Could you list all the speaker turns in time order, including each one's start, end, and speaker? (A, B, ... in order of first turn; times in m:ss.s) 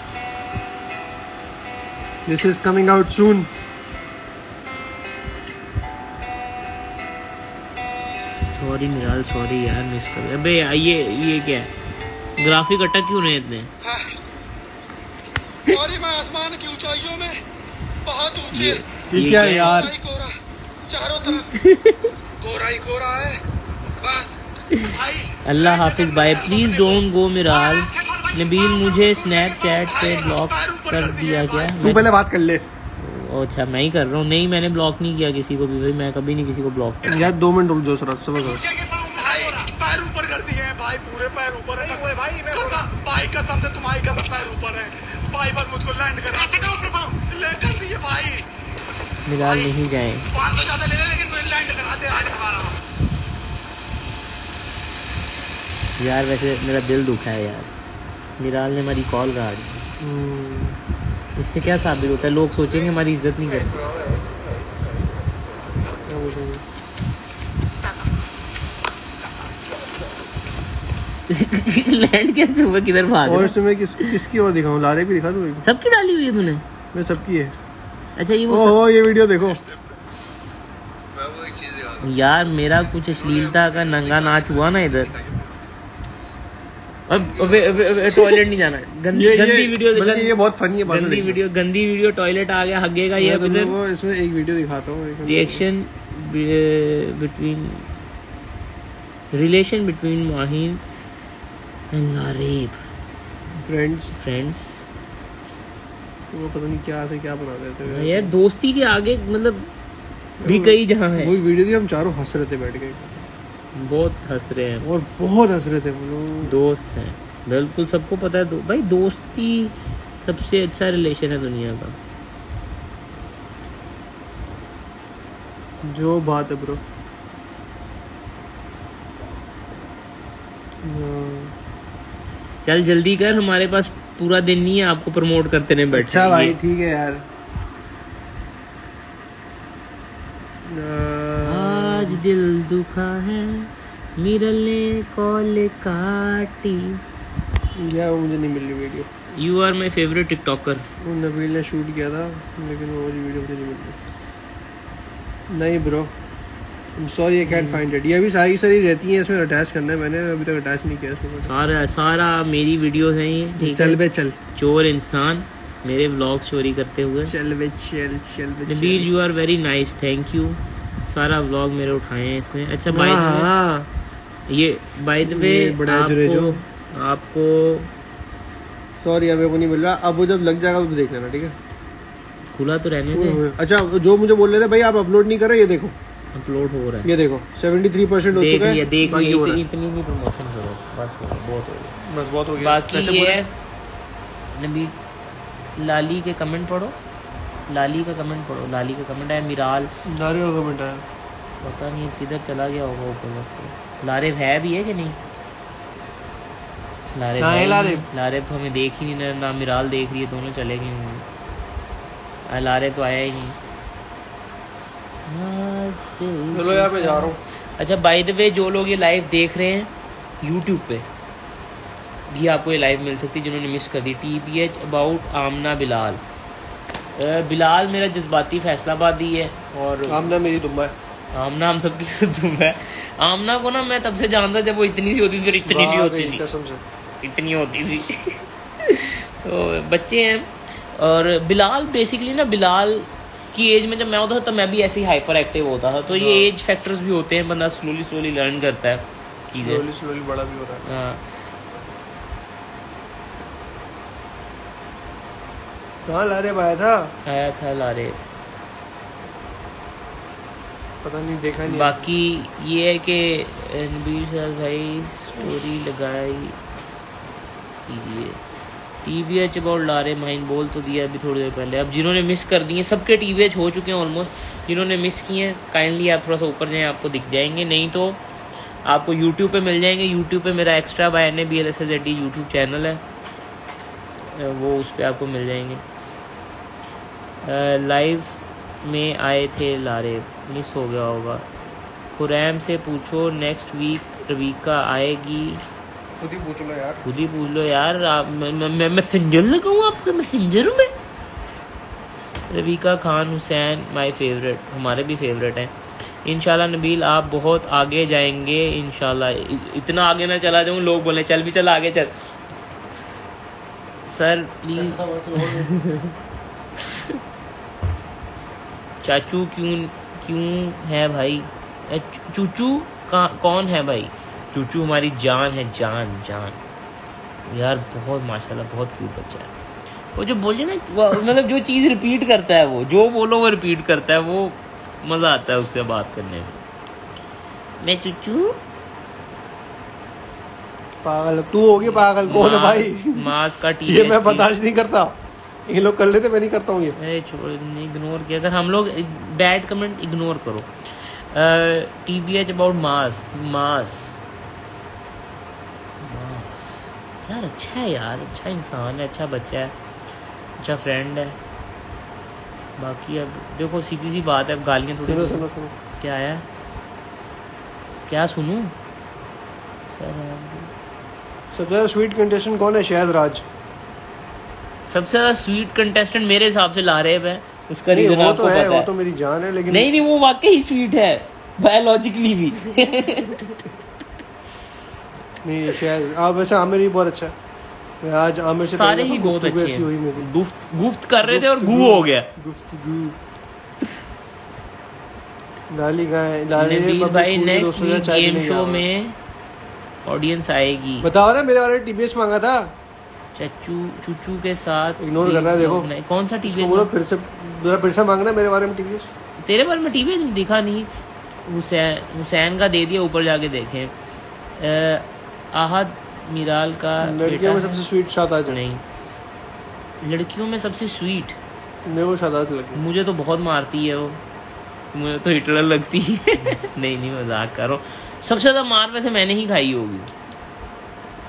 0:02.2-0:03.5 A
0:08.5-0:11.7 B
0:12.4-0:13.7 B
0:13.8-0:14.1 C
0:15.7-0:17.4 C
0:18.0-0:18.9 C
0:18.5-0:19.8 B
0:19.1-0:19.9 A
0:19.6-0:20.3 C
0:20.9-0:21.5 C
0:21.5-0:22.1 B
0:22.4-0:23.4 C
0:24.0-0:24.3 C
0:24.7-0:32.0 B
0:24.9-0:27.0 C
0:27.6-0:32.0 C
0:31.8-0:32.6 A
0:33.0-0:37.3 B
0:37.0-0:38.6 A
0:38.4-0:48.4 C
0:49.2-0:50.3 B
0:49.4-0:49.7 C
0:50.3-0:52.8 C
0:56.0-0:57.7 B
0:58.4-0:59.9 B
1:00.0-1:00.8 A
1:01.4-1:03.8 B
1:06.0-1:06.6 A
1:11.3-1:14.1 B
1:13.2-1:15.6 A
1:15.6-1:16.6 B
1:16.9-1:17.5 A
1:18.2-1:18.8 B
1:18.5-1:19.6 A
1:21.2-1:22.0 A
1:22.0-1:25.1 B
1:27.1-1:30.3 B
1:27.5-1:28.4 A
1:29.1-1:31.4 A
1:30.8-1:33.7 B
1:33.2-1:35.6 A
1:35.2-1:37.9 B
1:39.3-1:40.8 B
1:41.9-1:42.8 B
1:43.6-1:44.1 A
1:44.1-1:44.8 B
1:46.3-1:48.3 A
1:47.8-1:49.7 B
1:50.4-1:53.2 A
1:50.4-1:51.3 B
1:53.7-1:54.9 B
1:54.8-1:56.5 A
1:56.4-2:02.0 B
2:05.8-2:06.8 A
2:10.8-2:11.5 A
2:12.6-2:16.6 B
2:15.9-2:17.2 A
2:20.6-2:22.2 A
2:21.4-2:27.0 B
2:27.8-2:29.1 A
2:29.3-2:30.9 B
2:31.0-2:34.0 A
2:35.5-2:36.1 A
2:37.0-2:41.5 A
2:37.5-2:37.8 B
2:41.4-2:44.0 B
2:43.6-2:44.4 A
2:44.5-2:47.3 B
2:47.2-2:49.1 A
2:48.7-2:53.5 B
2:52.9-2:53.9 A
2:54.5-2:57.9 B
2:55.2-2:56.6 A
2:59.0-3:01.6 A
3:02.5-3:03.4 B
3:03.1-3:05.9 A
3:06.3-3:07.1 B
3:07.0-3:09.6 A
3:08.3-3:12.0 B
3:12.0-3:13.4 A
3:12.6-3:13.5 B
3:14.5-3:14.9 B
3:15.8-3:17.0 B
3:17.7-3:19.9 B
3:20.0-3:21.0 A
3:21.6-3:25.2 B
3:27.1-3:31.3 B
3:27.4-3:28.0 A
3:32.5-3:33.6 B
3:35.2-3:41.0 B
3:36.5-3:37.4 A
3:42.3-3:46.2 B
3:47.2-3:50.3 B
3:50.1-3:50.9 A
3:51.3-3:56.4 B
3:55.7-3:56.8 A
3:57.2-4:09.8 B
4:06.1-4:06.5 A
4:09.6-4:10.8 A
4:10.8-4:11.2 B
4:16.0-4:17.1 A
4:17.2-4:18.2 B
4:21.0-4:22.1 A
4:21.7-4:26.6 B
4:27.8-4:28.4 B
4:29.0-4:38.2 B
4:38.8-4:43.0 B
4:44.2-4:45.8 B
4:47.4-4:51.4 B
4:52.1-4:55.6 B
4:56.2-4:57.0 A
4:57.0-5:00.9 B
5:02.5-5:12.3 B
5:14.0-5:16.1 B
5:14.7-5:15.8 A
5:16.8-5:17.2 B
5:19.0-5:26.6 B
5:27.5-5:29.5 B
5:30.1-5:36.6 B
5:37.8-5:38.6 B
5:41.0-5:43.3 A
5:41.8-5:44.5 B
5:43.8-5:45.1 A
5:45.6-5:47.0 A
5:47.0-5:54.2 B
5:56.0-5:59.7 B
6:00.6-6:01.4 B
6:02.8-6:05.5 B
6:05.0-6:05.7 A
6:06.0-6:06.4 B
6:08.1-6:08.7 B
6:09.9-6:10.7 B
6:11.5-6:13.4 A
6:14.9-6:18.9 B
6:17.9-6:19.9 A
6:19.7-6:23.6 B
6:25.4-6:27.3 A
6:28.0-6:30.3 A
6:28.6-6:32.3 B
6:31.2-6:33.2 A
6:35.7-6:38.8 A
6:36.6-6:39.2 B
6:40.0-6:41.1 B
6:41.0-6:42.7 A
6:43.3-6:46.9 B
6:45.0-6:45.9 A
6:46.4-6:49.1 A
6:49.4-6:50.9 B
6:51.4-6:53.9 B
6:54.6-6:57.8 B
6:57.0-6:58.6 A
6:58.5-6:58.8 B
7:00.0-7:01.4 B
7:01.8-7:02.8 A
7:02.7-7:04.2 B
7:04.9-7:10.1 B